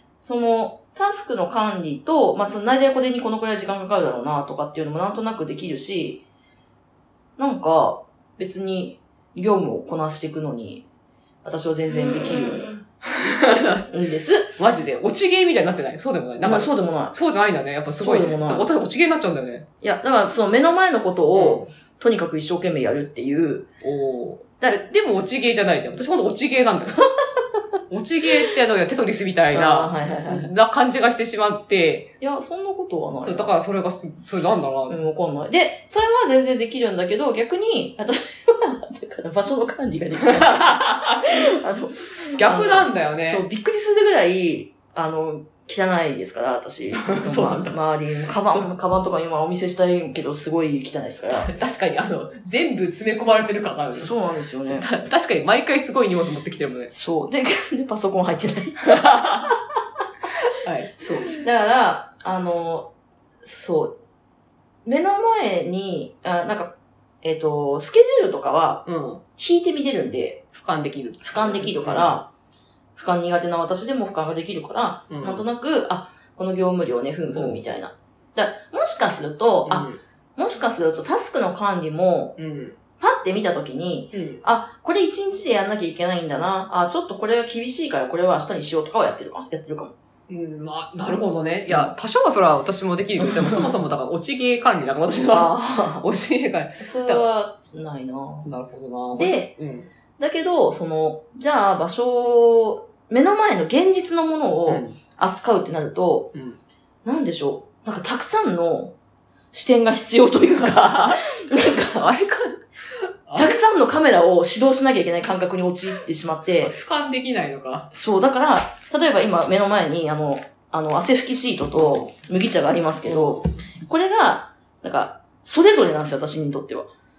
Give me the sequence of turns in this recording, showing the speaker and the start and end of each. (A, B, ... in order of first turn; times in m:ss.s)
0:00.2-0:06.2 A
0:07.4-0:10.9 A
0:11.4-0:12.7 A
0:11.9-0:13.8 B
0:13.9-0:14.6 A
0:14.6-0:19.7 B
0:16.4-0:17.2 A
0:18.0-0:18.7 A
0:19.8-0:23.7 A
0:21.3-0:21.7 B
0:23.8-0:27.0 B
0:27.9-0:32.1 B
0:29.5-0:30.5 A
0:32.2-0:33.5 A
0:33.2-0:35.0 B
0:34.9-0:51.5 A
0:40.4-0:41.3 B
0:42.4-0:43.5 B
0:47.0-0:47.8 B
0:48.4-0:48.7 B
0:51.3-0:54.2 B
0:53.9-0:54.9 A
0:54.7-0:56.9 B
0:56.9-0:59.6 A
0:58.9-0:59.4 B
1:00.6-1:01.0 B
1:01.0-1:02.9 A
1:03.4-1:04.0 A
1:04.8-1:08.8 A
1:08.8-1:09.2 B
1:09.4-1:10.4 A
1:10.5-1:12.2 B
1:11.2-1:12.3 A
1:13.0-1:22.4 A
1:15.1-1:15.4 B
1:17.3-1:17.6 B
1:19.7-1:20.0 B
1:22.4-1:22.8 B
1:23.0-1:29.9 A
1:24.1-1:24.4 B
1:30.3-1:37.3 B
1:35.3-1:36.0 A
1:36.8-1:38.5 A
1:38.4-1:39.9 B
1:39.1-1:39.5 A
1:40.2-1:46.3 A
1:44.7-1:45.0 B
1:46.3-1:46.6 B
1:47.0-1:48.9 A
1:49.5-1:52.1 A
1:50.6-1:52.6 B
1:53.3-1:53.6 B
1:53.4-1:56.7 A
1:56.5-1:57.9 B
1:57.9-2:06.9 A
2:03.0-2:03.5 B